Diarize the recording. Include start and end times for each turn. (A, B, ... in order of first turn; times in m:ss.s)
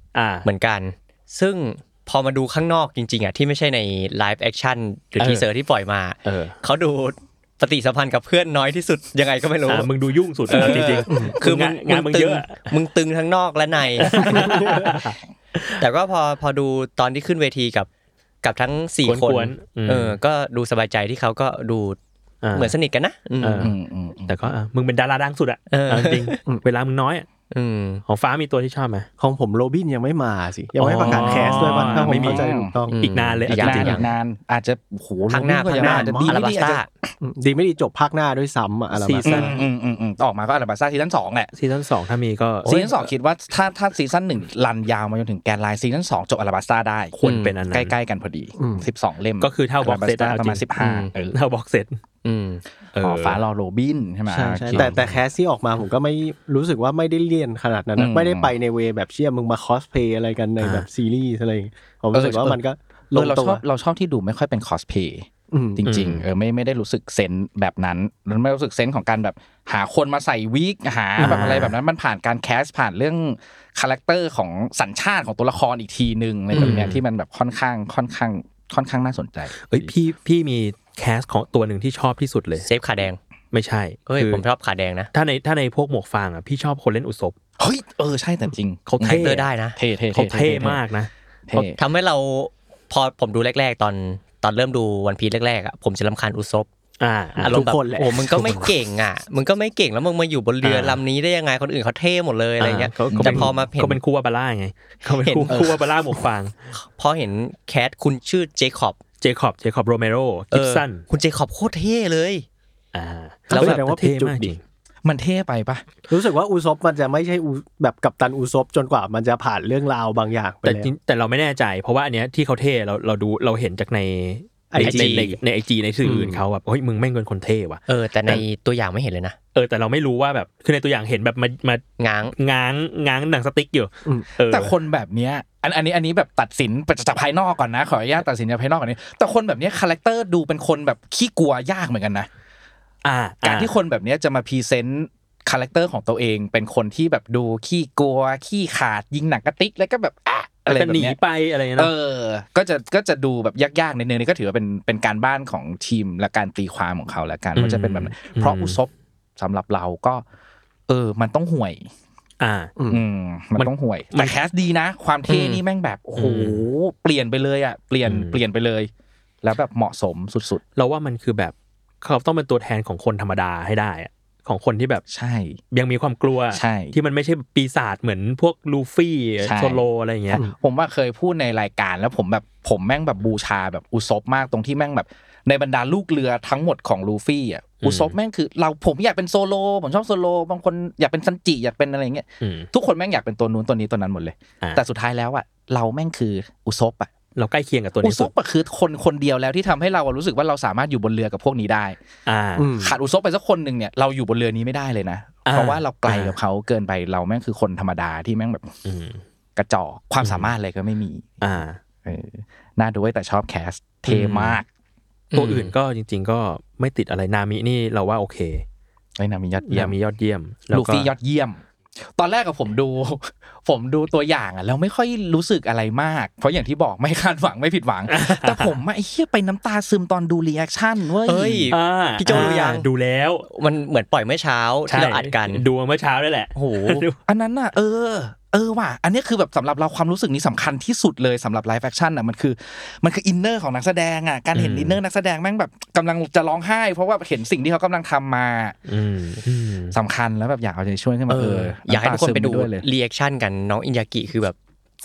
0:00.1-0:00.5 A
0:00.4-0:09.9 B
0:05.2-0:05.5 A
0:06.2-0:06.6 A
0:09.6-0:12.7 A
0:10.5-0:14.9 B
0:10.7-0:11.4 C
0:14.0-0:15.8 A
0:14.2-0:14.8 C
0:15.8-0:17.9 B
0:18.4-0:22.0 B
0:19.1-0:20.2 A
0:22.4-0:22.8 A
0:22.5-0:23.7 B
0:23.4-0:23.7 A
0:23.6-0:24.4 D
0:24.3-0:27.3 A
0:25.7-0:26.4 B
0:27.5-0:28.0 B
0:28.1-0:29.1 A
0:29.2-0:33.0 C
0:30.8-0:32.5 A
0:31.0-0:32.7 D
0:32.9-0:34.1 B
0:33.0-0:34.0 A
0:33.5-0:37.1 D
0:35.3-0:36.9 B
0:35.8-0:36.4 C
0:37.2-0:39.5 C
0:38.9-0:39.7 A
0:39.2-0:41.5 D
0:41.5-0:42.8 A
0:42.6-0:43.1 B
0:42.6-0:51.4 D
0:47.2-0:48.0 A
0:47.2-0:47.5 B
0:48.6-0:48.9 C
0:49.4-0:50.7 A
0:50.8-0:51.1 B
0:51.3-0:52.0 A
0:52.2-0:52.6 B
0:53.0-0:53.4 A
0:53.0-0:55.0 D
0:54.3-1:03.6 C
0:54.7-0:55.0 A
0:58.0-0:58.5 D
1:00.6-1:00.9 A
1:02.1-1:02.6 D
1:03.1-1:19.9 D
1:05.5-1:05.8 C
1:05.8-1:06.3 A
1:11.2-1:11.7 A
1:16.6-1:16.8 B
1:16.6-1:17.0 A
1:19.7-1:22.7 A
1:22.6-1:23.2 B
1:23.5-1:24.4 A
1:24.1-1:25.1 B
1:25.1-1:27.4 A
1:27.6-1:30.8 D
1:28.9-1:29.5 A
1:29.0-1:29.8 B
1:30.1-1:31.7 A
1:31.5-1:31.8 D
1:31.8-1:36.7 B
1:37.0-1:37.7 A
1:37.4-1:44.0 B
1:37.4-1:38.7 C
1:40.6-1:41.0 A
1:42.6-1:46.5 A
1:43.1-1:43.5 D
1:45.1-1:45.8 B
1:45.5-1:45.7 D
1:47.0-1:49.0 B
1:49.2-1:51.0 A
1:50.5-1:52.4 B
1:52.9-1:54.6 A
1:53.5-1:54.5 C
1:55.0-1:55.8 D
1:56.1-2:00.9 C
2:00.6-2:08.4 A
2:04.7-2:05.4 C
2:04.8-2:05.3 B
2:06.0-2:06.4 C
2:07.9-2:09.4 B
2:09.6-2:11.8 A
2:12.0-2:12.4 B
2:12.4-2:14.7 A
2:14.5-2:22.3 D
2:23.0-2:23.7 A
2:23.4-2:31.2 D
2:30.7-2:31.9 A
2:31.8-2:40.2 D
2:37.6-2:38.8 A
2:40.9-2:41.9 D
2:42.4-2:42.7 A
2:42.8-2:43.0 C
2:42.9-2:48.9 D
2:43.6-2:44.3 A
2:45.3-2:45.6 B
2:46.2-2:46.7 A
2:48.0-2:48.4 A
2:49.4-2:50.6 D
2:50.8-2:55.0 A
2:55.1-2:55.6 D
2:55.7-3:00.4 A
2:56.5-2:57.0 D
2:59.4-3:17.1 D
3:07.8-3:08.2 A
3:12.4-3:12.7 A
3:17.4-3:18.3 A
3:18.0-3:22.0 D
3:22.3-3:22.7 A
3:22.6-3:23.0 C
3:22.8-3:28.7 D
3:25.4-3:26.4 A
3:28.8-3:29.2 A
3:29.6-3:31.5 D
3:30.2-3:30.5 A
3:31.4-3:31.8 A
3:32.0-3:34.7 D
3:34.1-3:34.6 A
3:35.3-3:35.7 B
3:35.3-3:38.6 A
3:39.2-3:40.0 D
3:39.6-3:41.1 A
3:40.7-3:51.7 D
3:48.1-3:48.8 A
3:51.3-3:52.9 B
3:51.7-3:53.5 A
3:52.3-3:52.6 D
3:53.5-3:55.6 B
3:54.9-3:57.2 A
3:56.6-3:57.0 B
3:57.3-4:08.8 D
4:04.6-4:05.0 A
4:08.9-4:10.0 A
4:09.9-4:12.8 D
4:11.3-4:14.6 B